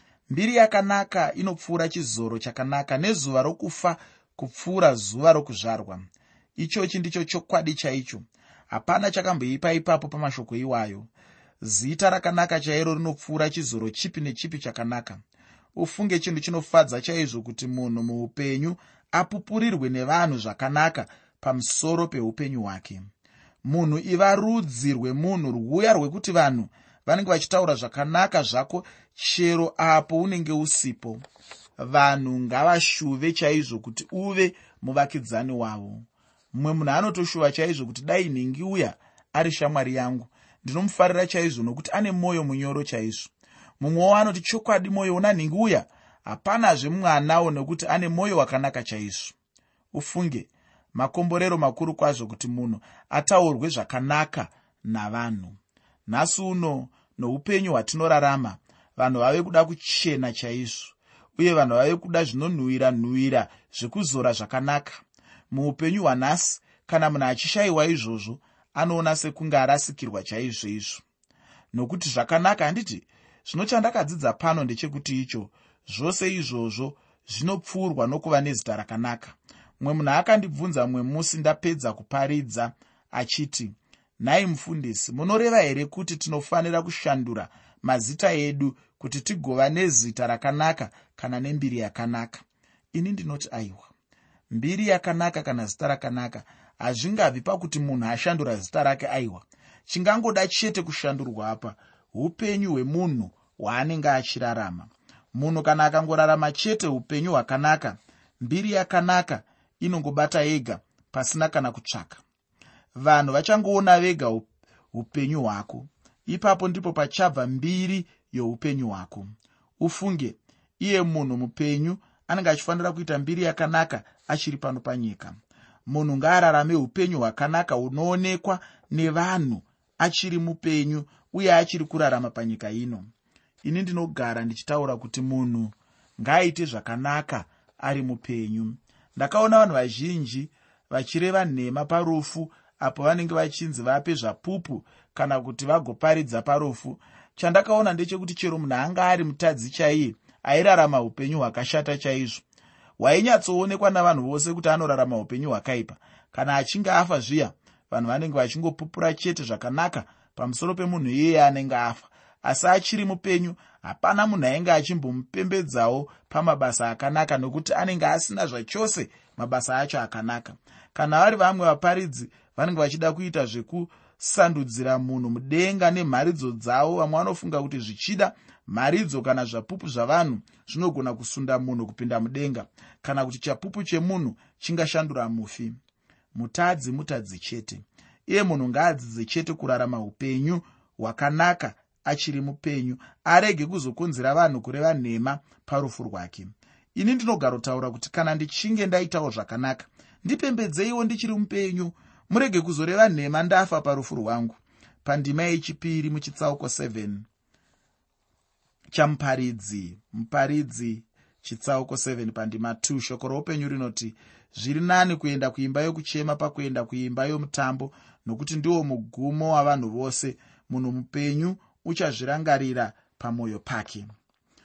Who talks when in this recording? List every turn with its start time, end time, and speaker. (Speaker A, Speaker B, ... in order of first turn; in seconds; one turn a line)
Speaker A: 0.3-6.0
Speaker A: 6.6-11.1
Speaker A: 11.6-15.2
Speaker A: 15.7-23.1
Speaker A: 23.6-31.2
Speaker A: 31.8-49.3
Speaker A: 49.9-71.0
Speaker A: 71.7-93.9
Speaker A: 94.5-112.2
Speaker A: 113.0-119.3
Speaker A: 119.8-133.1
Speaker A: 133.6-152.4
Speaker A: 153.0-185.8
Speaker A: 186.3-207.3
Speaker A: 208.9-224.1